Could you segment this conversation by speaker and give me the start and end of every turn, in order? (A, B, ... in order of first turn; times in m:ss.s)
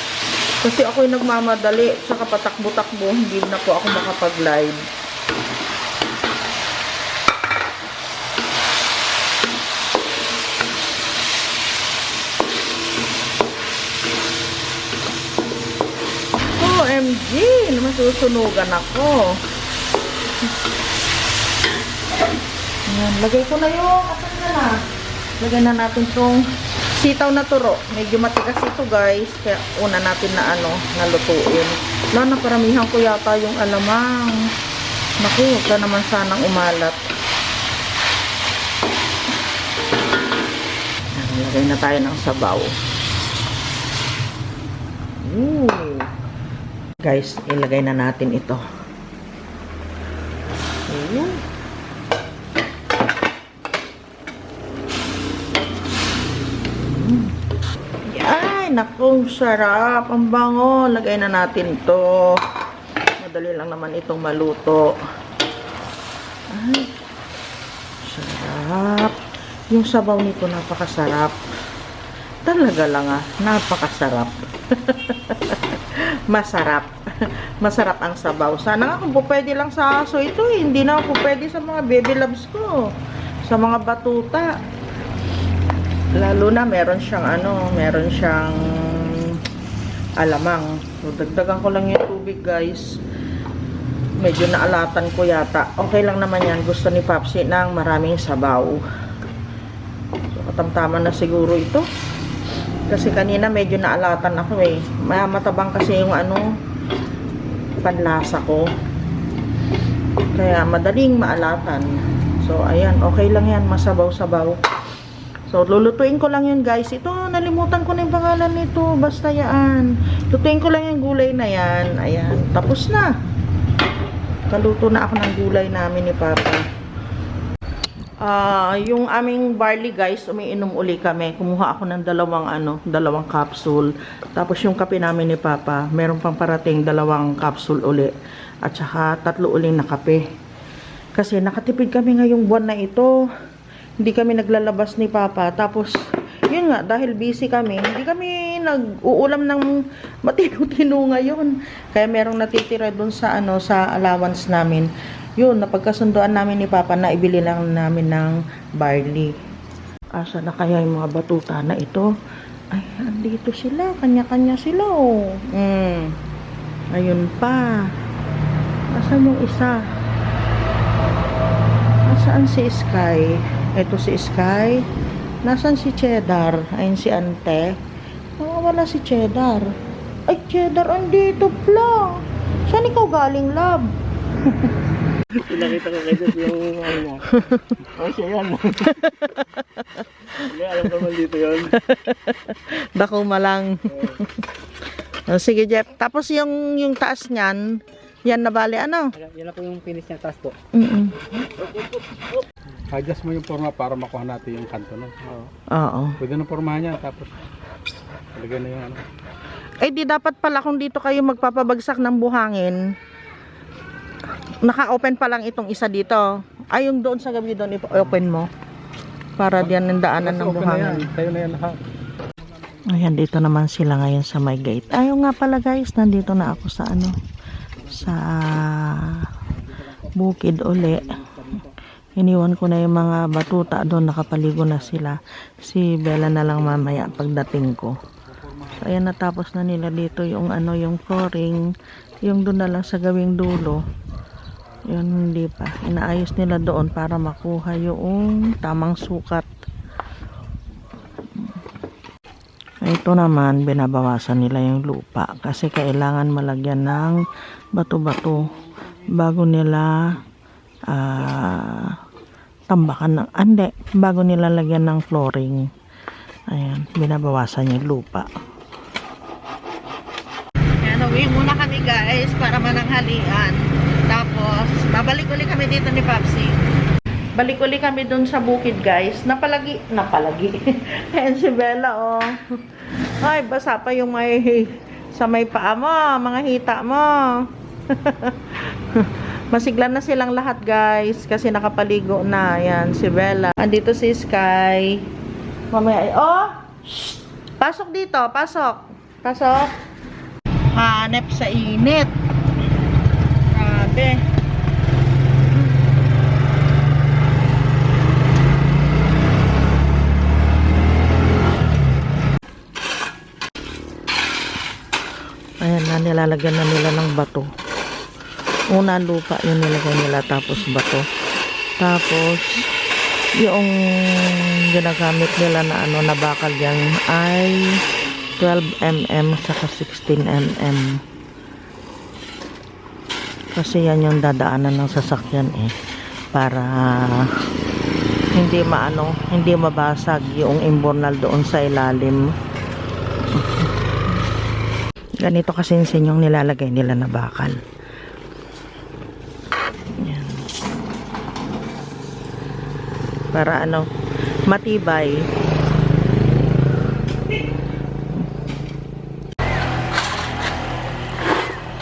0:00.6-0:04.8 A
0:16.6-0:19.4 A
0:22.9-0:24.8 A
0:25.4-0:26.4 A
0:27.0-0:34.4 A
0:35.2-0:37.0 A
0:41.2-0:42.7 A
0:45.2-0:46.1 A
0:47.0-0:48.6 A
0:50.9-0:51.4 A
0:56.9-0:57.3 A
0:58.1-1:02.4 A
1:03.2-1:05.0 A
1:06.5-1:06.9 A
1:08.0-1:09.1 A
1:09.7-1:11.4 A
1:12.5-1:16.9 A
1:17.6-1:22.9 A
1:23.4-1:24.6 A
1:26.2-1:29.3 A
1:30.2-1:32.9 A
1:34.2-1:38.8 A
1:40.4-1:41.9 A
1:42.9-1:46.5 A
1:47.8-1:48.7 A
1:50.3-1:54.6 A
1:55.5-2:03.1 A
2:04.5-2:06.6 A
2:08.2-2:18.1 A
2:18.6-2:20.2 A
2:21.2-2:23.2 A
2:24.0-2:25.9 A
2:26.5-2:39.4 A
2:40.2-2:42.1 A
2:42.7-2:46.1 A
2:46.9-2:47.9 A
2:48.9-2:49.8 A
2:52.1-2:54.8 A
2:55.4-2:57.8 A
2:58.4-2:59.7 A
3:00.3-3:03.9 A
3:05.5-3:07.3 B
3:05.5-3:06.5 A
3:07.3-3:07.8 A
3:07.9-3:09.0 B
3:08.7-3:11.1 A
3:10.5-3:11.7 B
3:11.7-3:14.3 A
3:15.3-3:19.1 A
3:19.2-3:20.6 B
3:20.7-3:21.4 A
3:22.9-3:25.4 C
3:25.7-3:26.2 A
3:26.2-3:27.3 C
3:28.4-3:29.0 C
3:29.8-3:32.9 A
3:34.6-3:38.5 A
3:39.4-3:41.1 A
3:39.6-3:41.8 C
3:42.9-3:47.2 A
3:47.8-3:49.3 A
3:50.1-3:51.2 A
3:52.2-3:58.0 A
3:58.4-3:58.8 C
3:58.8-4:01.7 A
4:02.2-4:03.8 A
4:04.9-4:09.5 A
4:12.8-4:17.2 A
4:17.7-4:18.5 A
4:19.1-4:20.2 A
4:20.9-4:22.0 A
4:22.7-4:25.7 A
4:26.5-4:28.3 A
4:30.8-4:36.5 A
4:37.4-4:42.6 A
4:43.2-4:55.0 A
4:55.7-4:59.7 A
5:00.8-5:02.1 A
5:03.5-5:04.2 A
5:15.6-5:17.5 A
5:18.7-5:21.0 A
5:21.8-5:22.7 A
5:23.4-5:27.8 A
5:28.4-5:31.0 A
5:33.5-5:35.7 A
5:36.3-5:37.3 A
5:38.4-5:42.3 A
5:43.3-5:44.1 A
5:45.2-5:47.6 A
5:50.0-5:50.4 A
5:53.3-5:53.9 A
5:54.5-5:55.2 A